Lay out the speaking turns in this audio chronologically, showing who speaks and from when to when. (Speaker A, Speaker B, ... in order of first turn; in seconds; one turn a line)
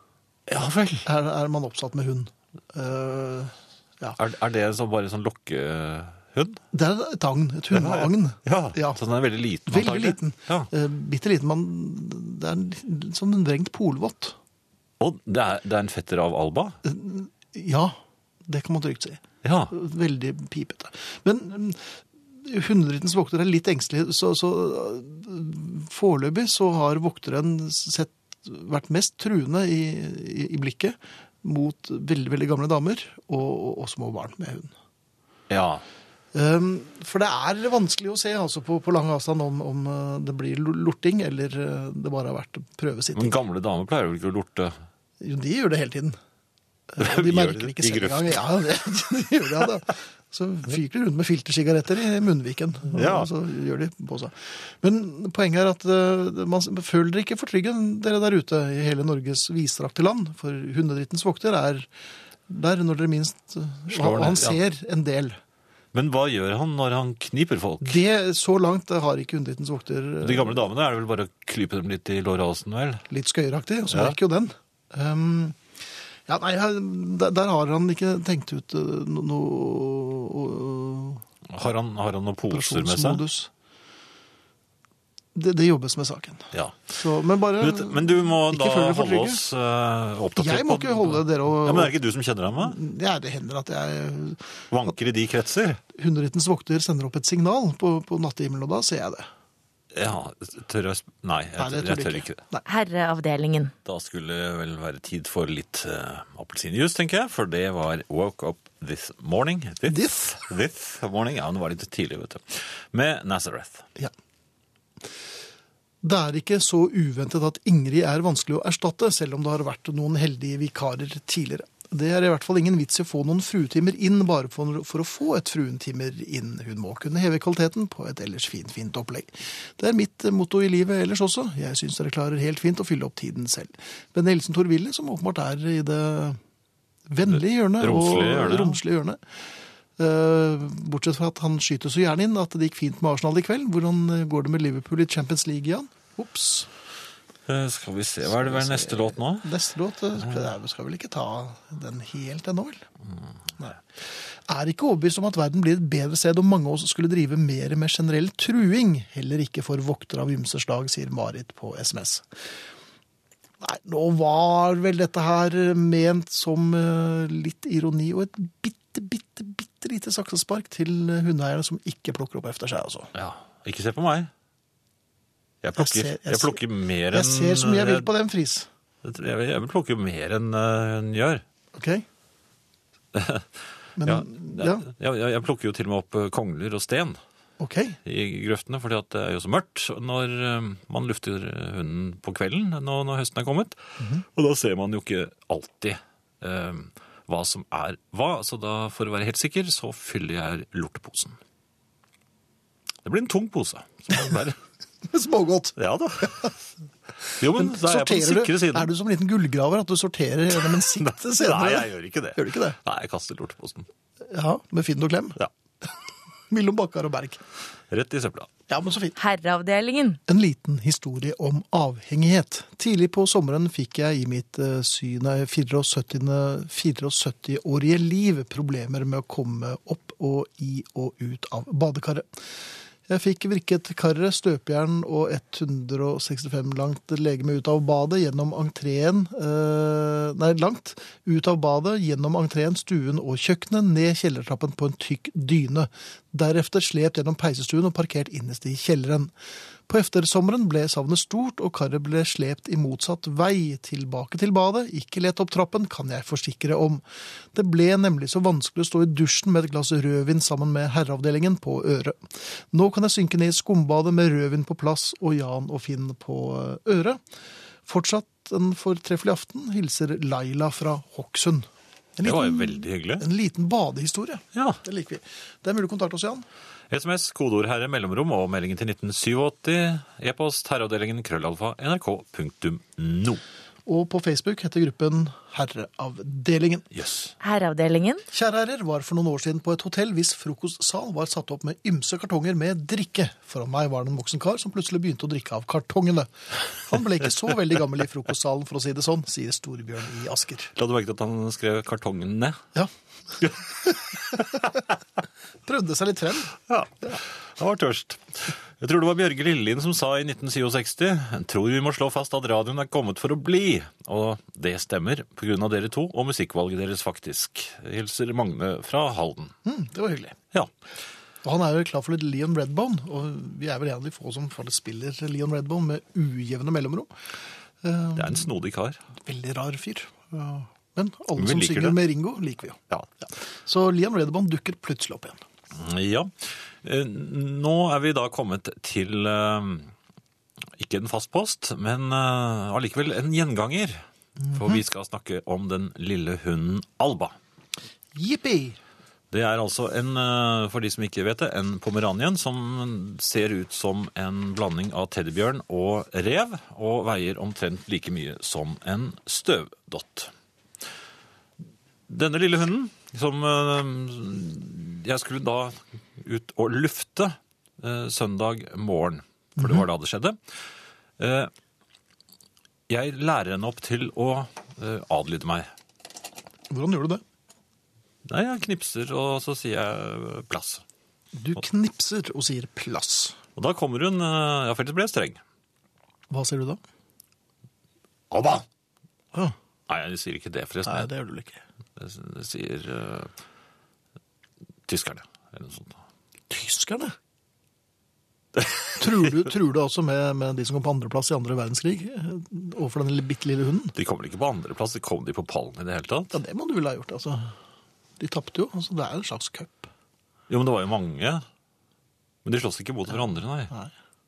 Speaker A: 0.5-1.1
Speaker B: 1.1-4.2
Speaker A: 4.2-6.6
Speaker B: 6.7-9.0
Speaker A: 7.7-10.7
Speaker B: 9.7-14.4
Speaker A: 15.0-16.8
Speaker B: 16.8-34.7
Speaker A: 19.4-19.7
Speaker A: 35.5-35.9
Speaker B: 36.3-43.4
Speaker A: 43.1-44.8
Speaker B: 45.2-46.2
Speaker B: 46.9-61.9
Speaker A: 47.0-48.4
Speaker A: 52.9-53.3
Speaker B: 62.5-65.4
Speaker A: 63.9-64.6
Speaker A: 65.9-68.0
Speaker B: 67.8-70.6
Speaker A: 70.2-73.0
Speaker B: 73.1-75.6
Speaker A: 73.9-74.2
Speaker B: 76.3-81.2
Speaker A: 81.5-83.2
Speaker B: 82.5-83.5
Speaker B: 85.3-89.4
Speaker A: 86.5-86.8
Speaker A: 87.6-92.8
Speaker B: 90.4-92.0
Speaker B: 92.6-94.6
Speaker A: 94.7-95.8
Speaker B: 95.9-99.3
Speaker A: 99.9-102.4
Speaker B: 101.6-102.7
Speaker C: 102.7-103.7
Speaker A: 103.8-113.9
Speaker B: 109.9-110.3
Speaker B: 116.0-136.4
Speaker B: 137.1-139.2
Speaker A: 137.8-138.8
Speaker B: 140.0-146.7
Speaker A: 147.5-149.5
Speaker B: 148.4-152.8
Speaker B: 154.3-162.3
Speaker B: 163.6-173.1
Speaker A: 173.1-174.3
Speaker A: 175.6-178.1
Speaker B: 175.8-178.7
Speaker A: 179.0-181.4
Speaker B: 181.8-182.1
Speaker A: 183.1-183.5
Speaker B: 184.0-184.9
Speaker A: 184.0-187.2
Speaker B: 187.6-188.0
Speaker A: 188.1-201.4
Speaker A: 203.1-204.6
Speaker B: 205.1-206.5
Speaker A: 205.8-206.5
Speaker B: 207.3-212.8
Speaker A: 207.4-208.9
Speaker A: 211.0-213.9
Speaker B: 214.3-215.4
Speaker B: 216.5-217.4
Speaker A: 217.9-218.5
Speaker B: 218.7-219.2
Speaker C: 219.2-220.2
Speaker B: 220.3-232.3
Speaker B: 233.1-249.3
Speaker B: 249.9-257.0
Speaker B: 257.5-267.2
Speaker B: 267.9-276.5
Speaker A: 272.2-273.3
Speaker A: 274.5-274.8
Speaker A: 276.9-283.4
Speaker B: 283.9-286.9
Speaker A: 286.9-287.3
Speaker C: 287.4-288.2
Speaker B: 288.3-300.7
Speaker A: 300.8-302.6
Speaker A: 303.4-304.4
Speaker B: 303.5-304.6
Speaker B: 305.7-307.2
Speaker A: 306.7-319.6
Speaker B: 319.6-320.4
Speaker B: 321.4-327.1
Speaker B: 327.8-328.5
Speaker A: 328.2-329.0
Speaker B: 329.2-335.4
Speaker A: 331.4-332.0
Speaker A: 335.7-339.9
Speaker A: 340.8-344.0
Speaker B: 344.4-344.8
Speaker A: 344.5-347.4
Speaker B: 348.1-348.8
Speaker A: 349.3-360.3
Speaker A: 362.1-370.4
Speaker B: 369.6-369.8
Speaker A: 371.2-371.5
Speaker A: 372.9-375.7
Speaker B: 376.7-377.2
Speaker A: 378.2-380.9
Speaker B: 381.3-383.4
Speaker A: 383.6-385.4
Speaker B: 386.3-386.8
Speaker A: 388.3-388.7
Speaker A: 389.9-391.1
Speaker B: 390.9-391.6
Speaker A: 392.0-393.3
Speaker A: 394.9-396.0
Speaker B: 396.5-397.1
Speaker B: 399.0-403.9
Speaker A: 403.9-406.4
Speaker B: 406.3-407.6
Speaker B: 408.2-409.9
Speaker A: 410.5-411.4
Speaker A: 412.4-413.7